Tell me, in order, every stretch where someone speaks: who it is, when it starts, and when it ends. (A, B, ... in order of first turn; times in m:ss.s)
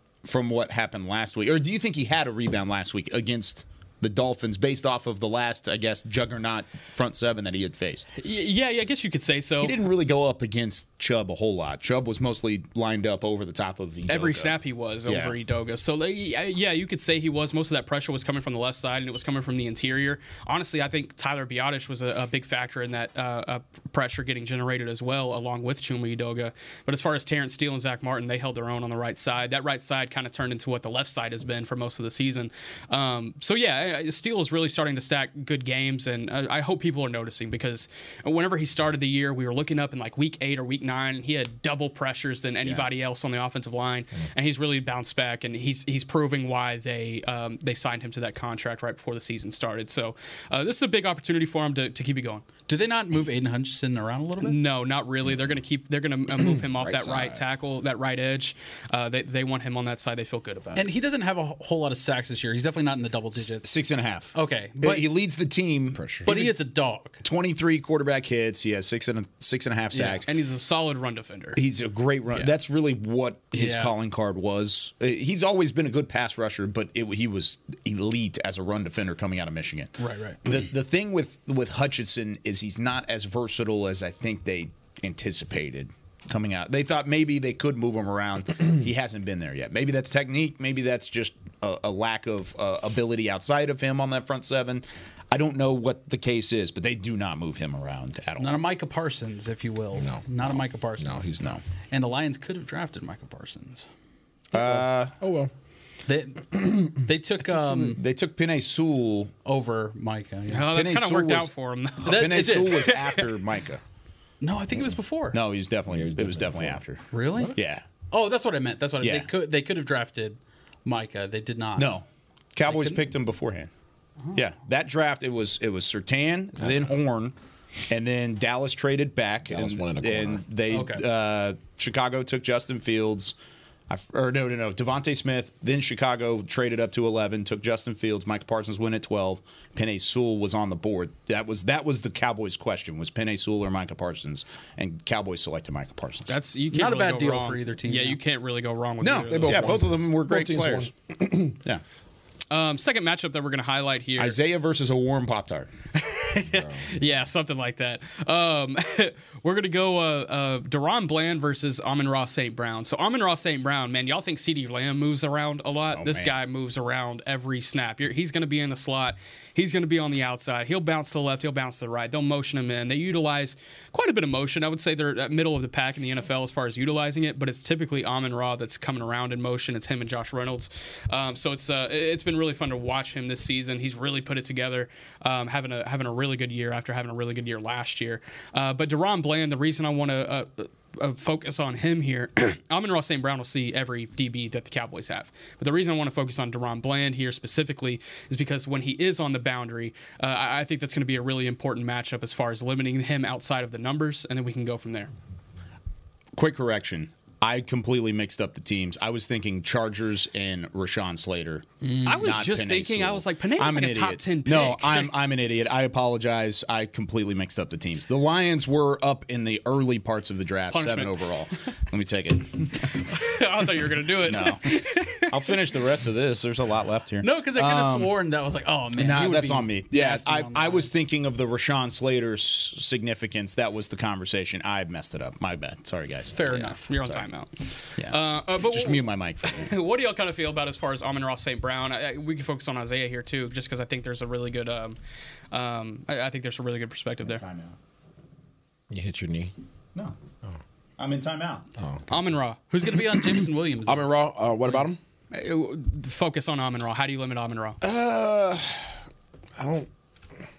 0:00.2-0:08.1 A
0:08.2-0:09.8 B
0:09.6-0:15.4 A
0:14.1-0:52.5 B
0:52.7-0:54.6 C
0:54.4-1:00.9 B
0:56.4-0:57.4 D
1:00.8-1:03.7 C
1:03.4-1:06.5 A
1:04.3-1:05.1 C
1:06.0-1:06.4 D
1:06.2-1:07.2 C
1:07.2-1:10.3 A
1:10.0-1:11.6 B
1:11.6-1:38.6 A
1:13.5-1:13.9 C
1:20.0-1:20.4 C
1:38.4-1:41.3 C
1:40.0-1:41.6 D
1:41.9-1:43.9 C
1:44.5-1:45.2 A
1:44.5-1:45.5 D
1:46.1-1:48.0 C
1:47.8-1:49.3 A
1:49.4-1:50.7 C
1:50.5-1:53.0 B
1:50.6-1:53.8 A
1:52.1-1:52.9 C
1:54.4-1:55.4 C
1:55.3-1:57.8 A
1:55.9-1:56.8 D
1:57.1-1:57.6 C
1:58.1-2:02.0 C
1:59.0-1:59.3 A
2:01.8-2:03.7 A
2:02.6-2:03.0 C
2:04.3-2:07.4 A
2:07.9-2:13.4 A
2:09.5-2:10.4 D
2:10.7-2:11.0 C
2:13.9-2:26.4 A
2:26.3-2:29.8 B
2:26.7-2:28.2 C
2:29.0-2:30.9 A
2:29.2-2:31.6 D
2:32.5-2:34.4 B
2:34.2-2:35.7 A
2:36.0-3:25.1 B
2:36.5-2:36.9 D
2:45.9-2:46.3 A
3:26.4-3:43.0 A
3:32.0-3:35.1 B
3:40.7-3:41.2 B
3:43.1-3:45.3 B
3:44.0-3:48.1 A
3:47.2-3:50.9 C
3:49.0-3:57.2 A
3:56.4-3:56.9 C
3:56.5-4:05.0 B
3:58.0-3:59.7 A
4:05.5-4:07.4 B
4:07.2-4:07.8 A
4:08.9-4:09.5 D
4:11.0-4:11.7 A
4:11.8-4:12.0 D
4:12.1-4:12.6 B
4:12.7-4:14.1 C
4:13.8-4:15.0 D
4:15.3-4:17.8 B
4:17.8-4:18.9 D
4:19.6-4:19.9 D